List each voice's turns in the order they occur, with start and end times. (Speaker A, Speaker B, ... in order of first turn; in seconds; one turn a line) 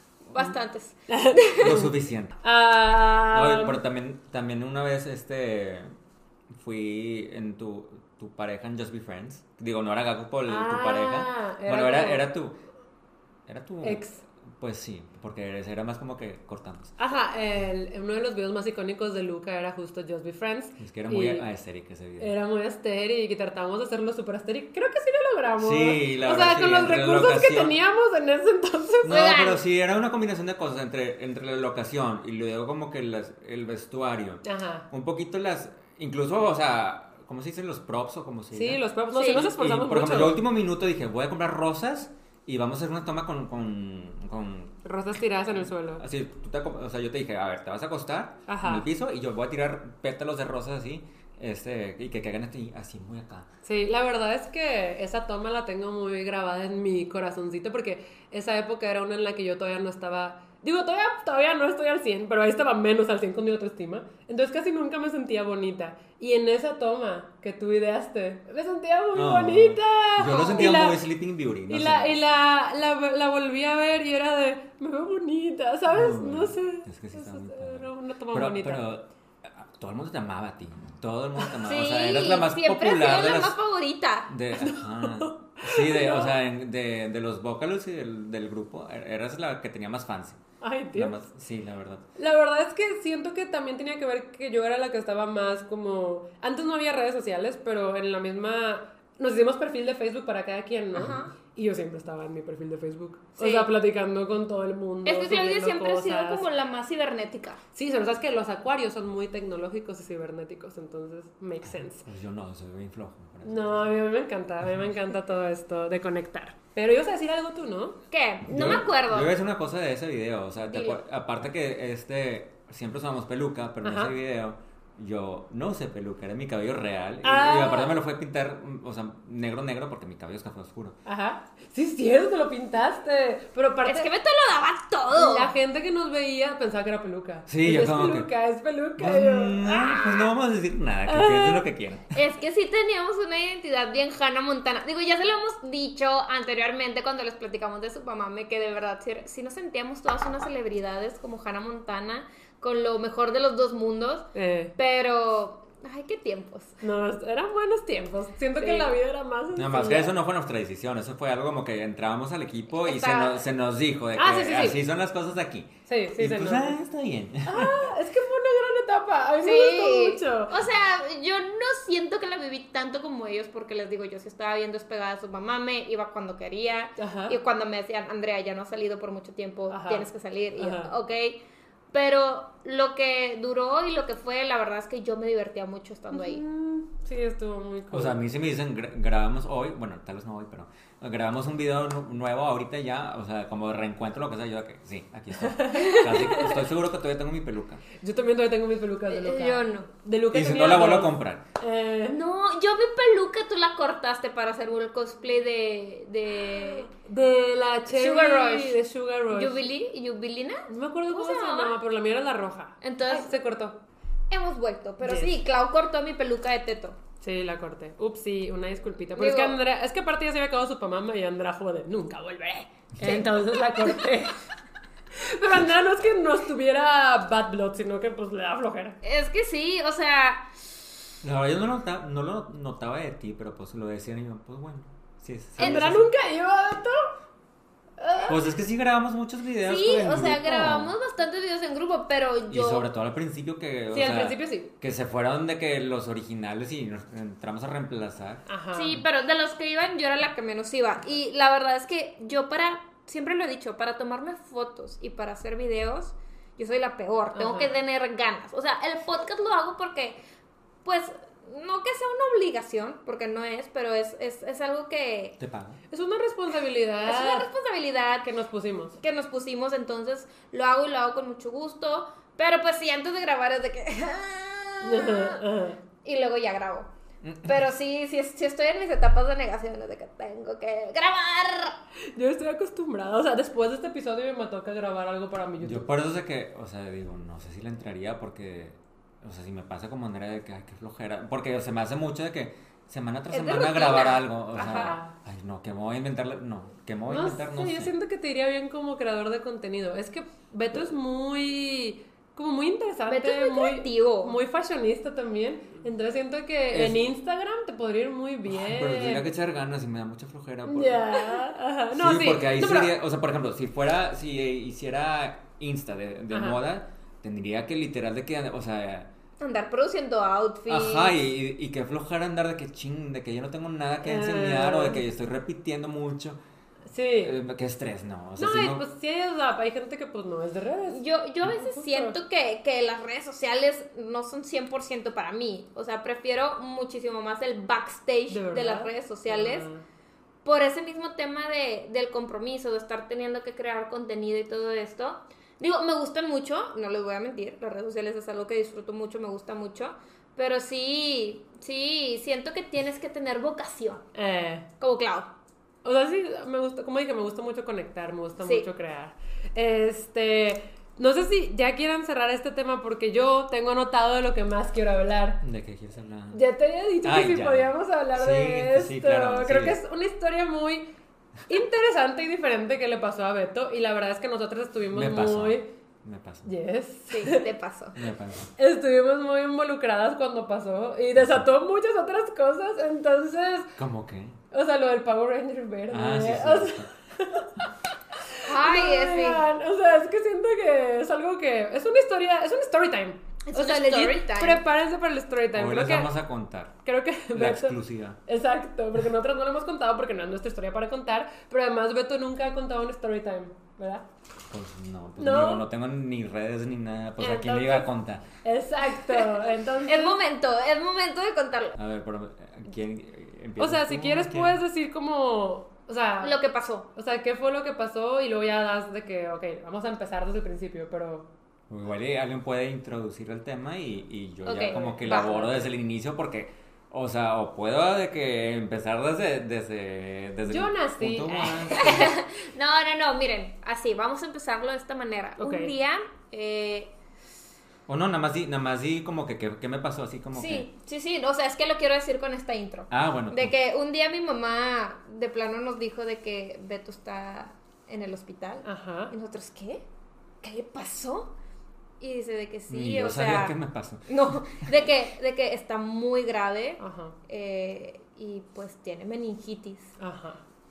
Speaker A: 0.3-1.7
Speaker B: 1.1-3.8
Speaker C: 1.6-2.4
Speaker C: 3.3-5.9
Speaker C: 6.5-12.6
Speaker B: 10.5-12.2
Speaker C: 13.5-14.0
Speaker B: 13.8-14.2
Speaker C: 14.6-16.9
Speaker B: 17.0-21.4
Speaker C: 20.8-22.3
Speaker B: 22.2-29.2
Speaker C: 25.6-27.7
Speaker C: 29.0-44.8
Speaker A: 29.1-29.6
Speaker B: 34.4-34.9
Speaker B: 38.5-40.4
Speaker A: 39.1-39.5
Speaker B: 44.8-46.0
Speaker C: 45.5-53.5
Speaker B: 48.5-48.9
Speaker B: 53.6-71.0
Speaker C: 69.1-72.2
Speaker B: 71.7-78.8
Speaker C: 75.9-83.5
Speaker A: 81.6-84.3
Speaker C: 84.3-90.4
Speaker B: 84.5-86.3
Speaker B: 90.6-91.2
Speaker C: 90.9-92.0
Speaker B: 92.2-106.4
Speaker A: 100.9-101.3
Speaker A: 103.4-103.7
Speaker A: 105.0-107.6
Speaker B: 107.7-112.0
Speaker C: 111.6-113.9
Speaker B: 113.4-118.0
Speaker C: 114.6-114.9
Speaker A: 118.1-119.3
Speaker C: 118.5-130.9
Speaker A: 120.6-121.0
Speaker B: 123.8-124.1
Speaker B: 127.2-128.0
Speaker B: 131.1-134.1
Speaker A: 133.8-135.5
Speaker B: 135.1-140.1
Speaker C: 137.5-138.3
Speaker C: 139.0-142.2
Speaker A: 139.9-140.2
Speaker B: 141.1-141.7
Speaker A: 142.1-156.8
Speaker B: 154.3-154.7
Speaker B: 156.8-160.1
Speaker A: 158.6-158.9
Speaker C: 159.5-167.8
Speaker A: 162.7-163.4
Speaker B: 164.2-164.8
Speaker B: 165.9-166.8
Speaker B: 167.4-170.5
Speaker A: 169.4-181.4
Speaker B: 177.0-177.4
Speaker B: 179.7-180.9
Speaker A: 181.9-186.4
Speaker B: 186.1-188.2
Speaker C: 187.9-197.8
Speaker B: 195.4-196.7
Speaker A: 195.7-196.3
Speaker B: 198.0-202.2
Speaker A: 199.1-199.9
Speaker C: 200.3-201.4
Speaker A: 202.1-206.9
Speaker B: 206.4-209.7
Speaker A: 207.9-208.8
Speaker A: 209.3-211.8
Speaker B: 210.7-213.8
Speaker A: 212.8-213.3
Speaker A: 214.3-217.0
Speaker B: 215.0-215.3
Speaker B: 217.2-224.4
Speaker A: 219.1-219.6
Speaker A: 223.0-224.1
Speaker B: 225.1-229.0
Speaker A: 229.0-230.6
Speaker C: 231.2-236.1
Speaker B: 235.6-237.2
Speaker B: 238.0-238.4
Speaker C: 238.3-240.9
Speaker A: 239.6-242.8
Speaker C: 242.5-248.4
Speaker B: 243.9-244.7
Speaker B: 248.5-249.0
Speaker A: 248.7-260.2
Speaker B: 257.3-257.7
Speaker A: 260.8-265.4
Speaker C: 265.4-265.8
Speaker B: 265.9-267.5
Speaker A: 267.1-268.3
Speaker B: 268.2-269.0
Speaker A: 269.0-275.4
Speaker B: 274.8-275.8
Speaker A: 276.0-276.9
Speaker C: 277.2-277.5
Speaker A: 277.4-281.8
Speaker B: 282.1-285.9
Speaker C: 285.6-297.9
Speaker A: 293.3-294.9
Speaker B: 294.5-295.1
Speaker B: 297.1-309.2
Speaker A: 303.1-304.4
Speaker C: 306.7-307.1
Speaker C: 308.5-311.4
Speaker B: 310.6-312.9
Speaker C: 311.9-319.1
Speaker B: 316.3-316.6
Speaker A: 319.4-321.2
Speaker C: 320.7-326.4
Speaker B: 324.0-325.0
Speaker B: 326.9-327.3
Speaker C: 327.2-328.8
Speaker B: 328.4-332.1
Speaker A: 330.9-339.7
Speaker B: 338.3-339.8
Speaker A: 340.4-354.0
Speaker B: 354.1-354.7
Speaker A: 354.8-355.3
Speaker B: 355.8-365.4
Speaker A: 358.4-358.7
Speaker C: 365.4-366.4
Speaker B: 366.3-370.9
Speaker C: 367.0-369.8
Speaker B: 371.5-375.7
Speaker C: 374.9-376.5
Speaker B: 376.4-377.4
Speaker A: 377.1-378.0
Speaker C: 377.9-378.5
Speaker B: 378.6-383.7
Speaker C: 381.1-381.5
Speaker C: 383.8-384.4
Speaker B: 384.5-387.7
Speaker C: 385.9-386.9
Speaker B: 388.3-396.1
Speaker A: 388.4-389.4
Speaker A: 393.4-394.6
Speaker C: 395.5-396.8
Speaker B: 396.8-397.7
Speaker C: 397.3-398.2
Speaker B: 398.3-404.0
Speaker C: 404.5-408.2
Speaker B: 405.2-405.6
Speaker B: 407.2-407.9
Speaker B: 408.4-410.2
Speaker A: 409.9-411.8
Speaker C: 411.8-414.6
Speaker B: 413.6-416.4
Speaker A: 416.2-416.9
Speaker B: 416.9-421.3
Speaker C: 421.7-432.1
Speaker A: 424.4-425.4
Speaker B: 424.6-425.7
Speaker B: 430.5-431.7
Speaker A: 431.7-436.9
Speaker B: 435.4-435.7
Speaker C: 437.9-440.7
Speaker A: 440.3-449.8
Speaker C: 442.9-443.6
Speaker B: 448.6-449.1
Speaker A: 450.4-451.3
Speaker A: 452.0-459.9
Speaker C: 452.7-454.7
Speaker B: 456.8-457.1
Speaker B: 460.0-460.4